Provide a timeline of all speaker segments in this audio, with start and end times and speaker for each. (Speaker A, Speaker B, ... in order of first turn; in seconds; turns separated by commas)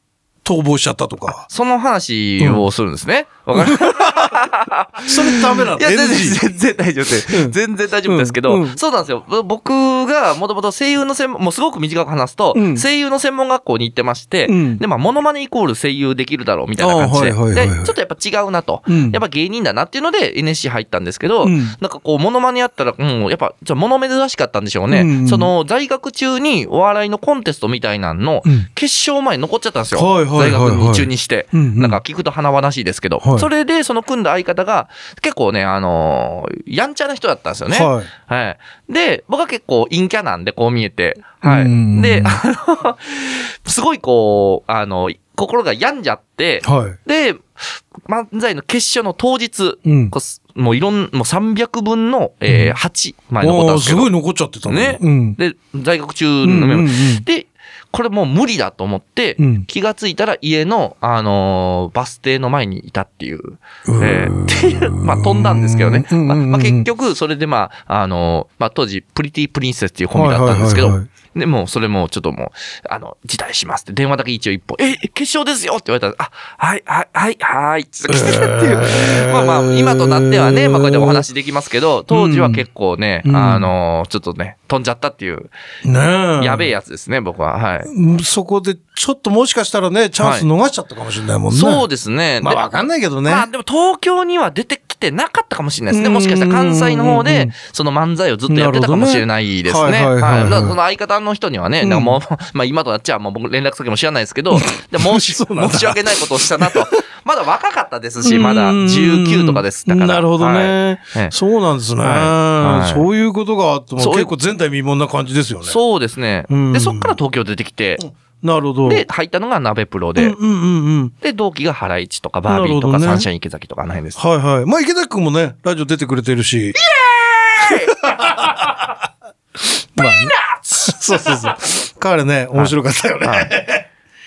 Speaker A: 0.4-1.4, Speaker B: 1.5-54.1, Speaker A: 3.5-4.4, Speaker A: 5.0-6.4, Speaker A: 7.3-8.8, Speaker A: 12.5-12.8, Speaker A: 14.5-14.8, Speaker A: 16.8-17.9, Speaker A: 18.9-19.2, Speaker A: 21.4-21.8, Speaker A: 24.9-25.5, Speaker A: 29.9-32.0, Speaker A: 33.2-33.5, Speaker A: 37.7-38.1, Speaker A: 41.4-42.4, Speaker A: 46.6-47.0, Speaker A: 49.8-50.1, Speaker A: 52.5-52.8, Speaker A: 53.4-55.4, Speaker B: 54.7-85.5, Speaker A: 56.4-57.2, Speaker A: 59.4-59.6, Speaker A: 63.9-66.8, Speaker A: 70.1-71.1, Speaker A: 78.1-81.2, Speaker A: 82.1-82.6, Speaker A: 83.2-83.7, Speaker A: 85.8-86.7, Speaker B: 86.4-87.9, Speaker A: 87.9-91.8, Speaker B: 90.2-90.5, Speaker B: 91.5-92.7, Speaker A: 92.4-93.5, Speaker B: 93.2-111.3, Speaker A: 95.9-97.5, Speaker A: 98.5-100.8, Speaker A: 101.8-102.2, Speaker A: 104.5-106.8, Speaker A: 108.2-115.8, Speaker B: 112.0-113.1, Speaker B: 114.0-114.3, Speaker B: 115.6-118.0, Speaker A: 116.5-117.2, Speaker A: 118.0-119.0, Speaker B: 118.8-120.3, Speaker A: 120.2-121.1, Speaker B: 121.2-124.2, Speaker A: 122.5-123.3, Speaker A: 124.2-126.8, Speaker B: 126.7-128.7, Speaker A: 127.6-128.9, Speaker A: 129.9-133.9, Speaker B: 130.0-131.4, Speaker B: 132.5-133.5